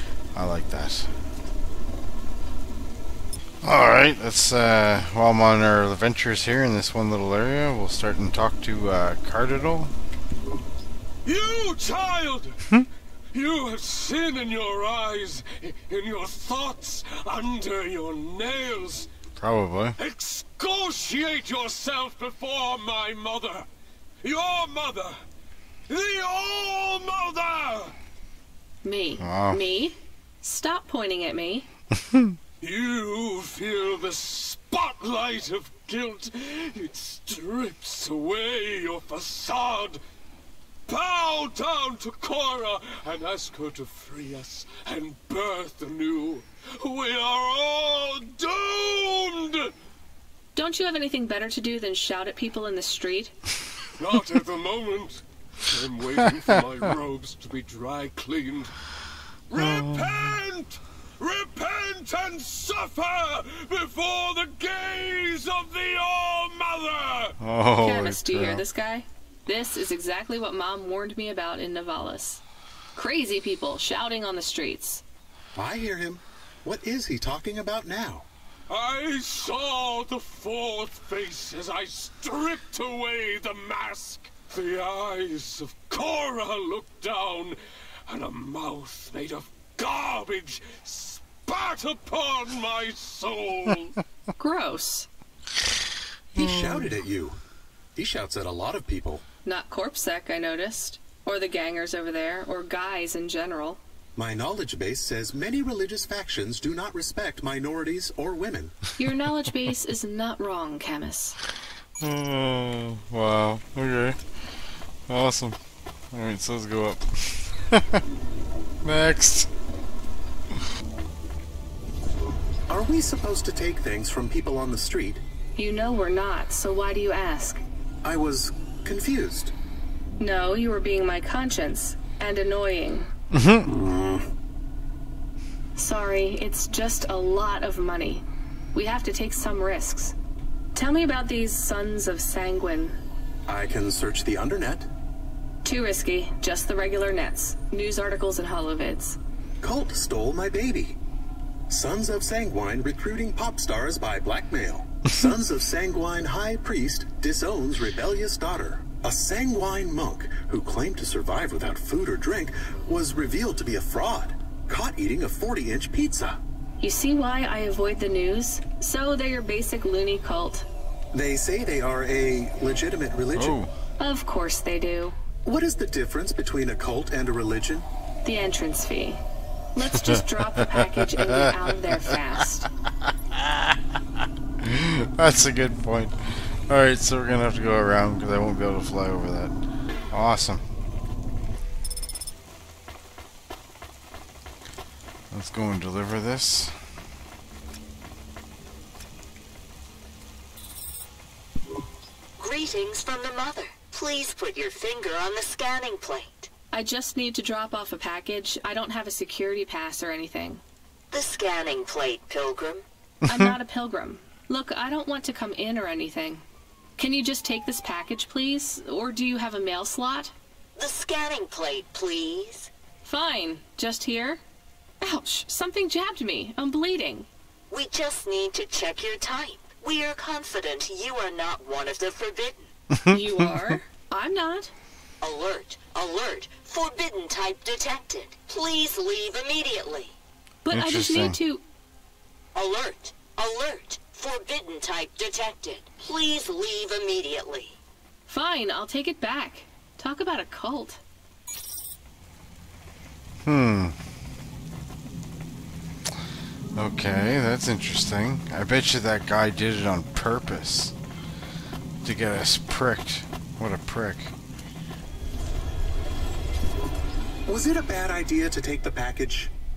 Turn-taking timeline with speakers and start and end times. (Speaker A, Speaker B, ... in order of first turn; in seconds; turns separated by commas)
Speaker A: 0.3-1.1, Speaker A: 3.6-9.9, Speaker B: 11.2-12.6, Speaker B: 13.3-19.1, Speaker A: 19.3-20.0, Speaker B: 20.0-23.7, Speaker B: 24.2-25.1, Speaker B: 25.9-27.9, Speaker C: 28.8-31.7, Speaker A: 29.2-29.6, Speaker A: 32.0-32.4, Speaker B: 32.6-40.0, Speaker B: 40.9-49.7, Speaker C: 50.5-53.3, Speaker B: 54.0-58.7, Speaker B: 59.5-67.3, Speaker A: 59.5-60.1, Speaker A: 67.4-68.6, Speaker C: 67.8-72.4, Speaker C: 72.9-75.0, Speaker D: 75.5-78.2, Speaker B: 78.7-94.0, Speaker C: 94.4-95.1, Speaker A: 96.3-96.9, Speaker D: 96.3-97.4, Speaker D: 98.0-99.2, Speaker C: 99.4-103.8, Speaker D: 104.2-108.8, Speaker C: 109.0-111.4, Speaker A: 112.0-114.2, Speaker A: 115.1-115.6, Speaker A: 116.1-118.0, Speaker A: 118.8-119.5, Speaker D: 122.7-125.2, Speaker C: 125.5-127.6, Speaker D: 128.0-129.5, Speaker C: 130.2-133.1, Speaker A: 133.3-133.7, Speaker D: 133.7-134.2, Speaker C: 135.8-140.1, Speaker C: 140.7-143.0, Speaker D: 143.5-144.9, Speaker C: 145.6-149.2, Speaker D: 149.6-151.0, Speaker D: 151.7-166.4, Speaker C: 166.8-170.7, Speaker D: 171.1-173.6, Speaker A: 173.3-173.7, Speaker C: 174.0-175.2, Speaker D: 175.4-177.8, Speaker C: 178.2-179.2, Speaker C: 179.7-182.7, Speaker A: 179.8-182.0, Speaker A: 183.0-183.8, Speaker A: 184.6-189.5, Speaker A: 190.1-190.6, Speaker A: 195.3-196.8, Speaker E: 202.4-206.5, Speaker C: 206.7-210.6, Speaker E: 211.1-212.8, Speaker C: 213.2-216.4, Speaker C: 217.0-220.3, Speaker E: 220.8-222.7, Speaker C: 223.0-224.4, Speaker C: 225.0-227.3, Speaker E: 227.7-232.7, Speaker A: 232.9-233.8, Speaker C: 233.1-234.7, Speaker E: 235.2-240.2, Speaker C: 240.6-241.6, Speaker A: 240.7-241.4, Speaker E: 242.5-247.8, Speaker C: 248.3-251.0, Speaker A: 253.4-254.0, Speaker A: 256.7-260.9, Speaker A: 262.0-264.3, Speaker D: 267.4-269.5